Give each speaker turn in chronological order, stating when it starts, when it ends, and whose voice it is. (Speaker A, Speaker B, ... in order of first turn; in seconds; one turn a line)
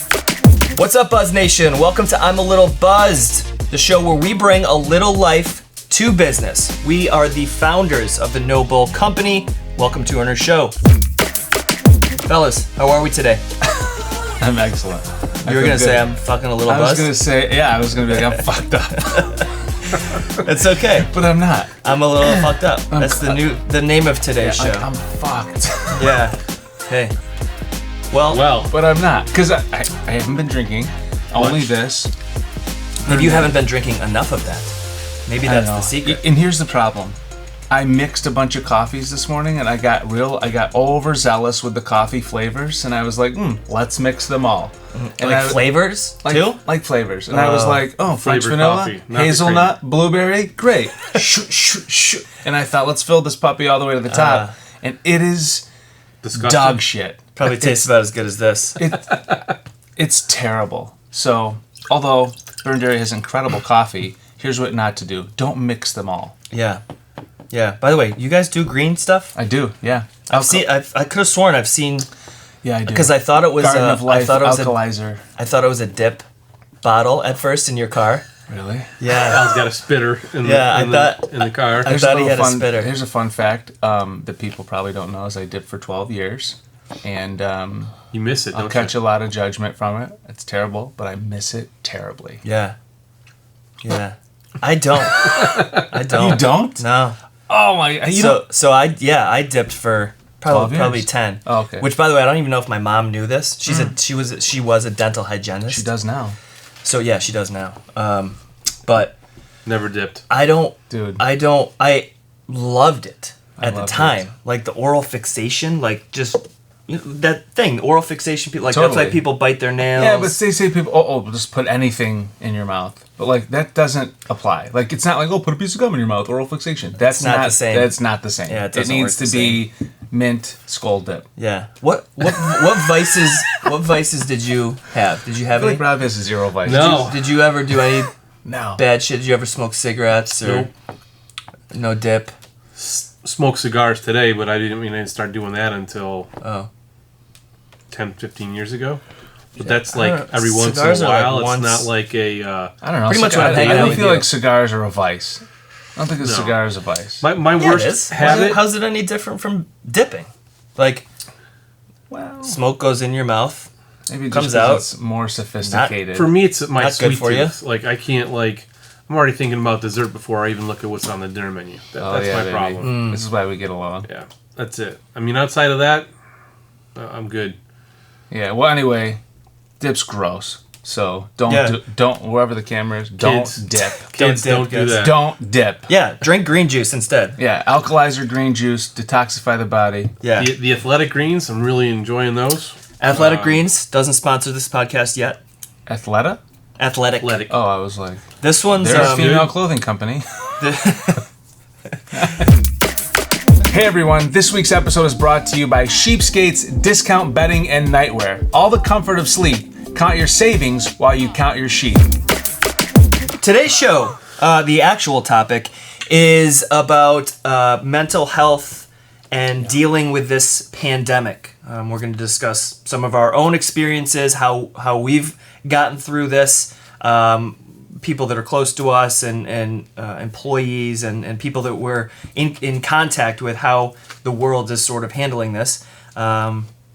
Speaker A: 0.7-10.8
Speaker A: 12.2-13.4
Speaker B: 13.8-19.5
Speaker A: 15.4-17.2
Speaker A: 19.0-19.4
Speaker A: 20.2-21.1
Speaker B: 20.8-23.5
Speaker A: 21.8-24.9
Speaker B: 24.4-26.2
Speaker A: 25.9-27.1
Speaker A: 28.1-28.4
Speaker C: 28.3-28.7
Speaker B: 28.7-32.1
Speaker C: 31.3-31.7
Speaker A: 33.0-34.7
Speaker B: 33.0-33.6
Speaker A: 35.3-36.3
Speaker B: 35.4-37.2
Speaker B: 37.7-55.6
Speaker A: 44.9-46.6
Speaker A: 47.3-47.9
Speaker C: 48.1-49.8
Speaker A: 54.1-54.5
Speaker C: 56.2-56.8
Speaker B: 56.3-57.8
Speaker A: 57.4-58.8
Speaker B: 58.8-59.3
Speaker B: 60.0-66.3
Speaker A: 66.5-66.8
Speaker A: 67.5-69.3
Speaker B: 69.3-70.7
Speaker A: 70.3-72.1
Speaker B: 72.6-75.2
Speaker A: 72.9-76.2
Speaker A: 76.8-78.3
Speaker B: 78.5-78.9
Speaker A: 79.0-79.6
Speaker C: 79.1-81.9
Speaker A: 80.4-83.0
Speaker B: 81.8-88.0
Speaker C: 88.1-89.0
Speaker B: 88.5-92.4
Speaker A: 92.4-92.8
Speaker A: 93.8-97.2
Speaker B: 96.0-96.8
Speaker B: 97.5-98.5
Speaker A: 98.1-105.9
Speaker B: 100.5-101.9
Speaker B: 103.7-104.0
Speaker B: 105.7-106.4
Speaker A: 106.8-109.2
Speaker C: 109.7-110.2
Speaker A: 110.3-120.4
Speaker B: 110.9-111.2
Speaker B: 113.6-114.2
Speaker B: 118.7-119.4
Speaker B: 119.9-131.3
Speaker A: 127.1-129.7
Speaker A: 131.4-135.9
Speaker B: 135.5-137.2
Speaker C: 136.6-137.4
Speaker A: 136.7-138.1
Speaker B: 138.4-138.8
Speaker A: 138.8-140.7
Speaker C: 140.4-140.7
Speaker A: 141.7-142.3
Speaker C: 142.8-146.3
Speaker A: 146.4-146.7
Speaker C: 147.9-149.0
Speaker C: 149.6-152.7
Speaker A: 149.6-151.9
Speaker B: 152.8-155.4
Speaker A: 153.1-154.3
Speaker C: 153.3-154.2
Speaker B: 156.0-157.2
Speaker C: 156.2-156.7
Speaker C: 157.2-158.6
Speaker A: 157.6-161.1
Speaker B: 162.1-162.6
Speaker A: 162.4-163.7
Speaker B: 164.1-166.3
Speaker A: 164.3-164.9
Speaker A: 165.6-166.0
Speaker C: 166.1-172.9
Speaker A: 166.7-167.6
Speaker B: 172.0-174.1
Speaker A: 172.8-173.2
Speaker C: 174.1-176.1
Speaker C: 176.9-177.6
Speaker B: 178.3-179.2
Speaker B: 179.8-184.0
Speaker A: 181.5-181.8
Speaker C: 183.2-185.2
Speaker A: 184.1-185.1
Speaker B: 184.9-185.9
Speaker A: 185.9-187.4
Speaker B: 187.4-190.1
Speaker A: 190.2-190.5
Speaker C: 190.3-193.6
Speaker A: 193.0-195.4
Speaker B: 195.9-196.4
Speaker A: 196.8-197.4
Speaker C: 197.2-197.5
Speaker B: 197.5-198.2
Speaker A: 198.4-199.4
Speaker B: 198.8-200.9
Speaker C: 198.8-199.6
Speaker A: 200.6-201.2
Speaker B: 202.1-202.4
Speaker B: 203.7-212.1
Speaker A: 213.4-236.7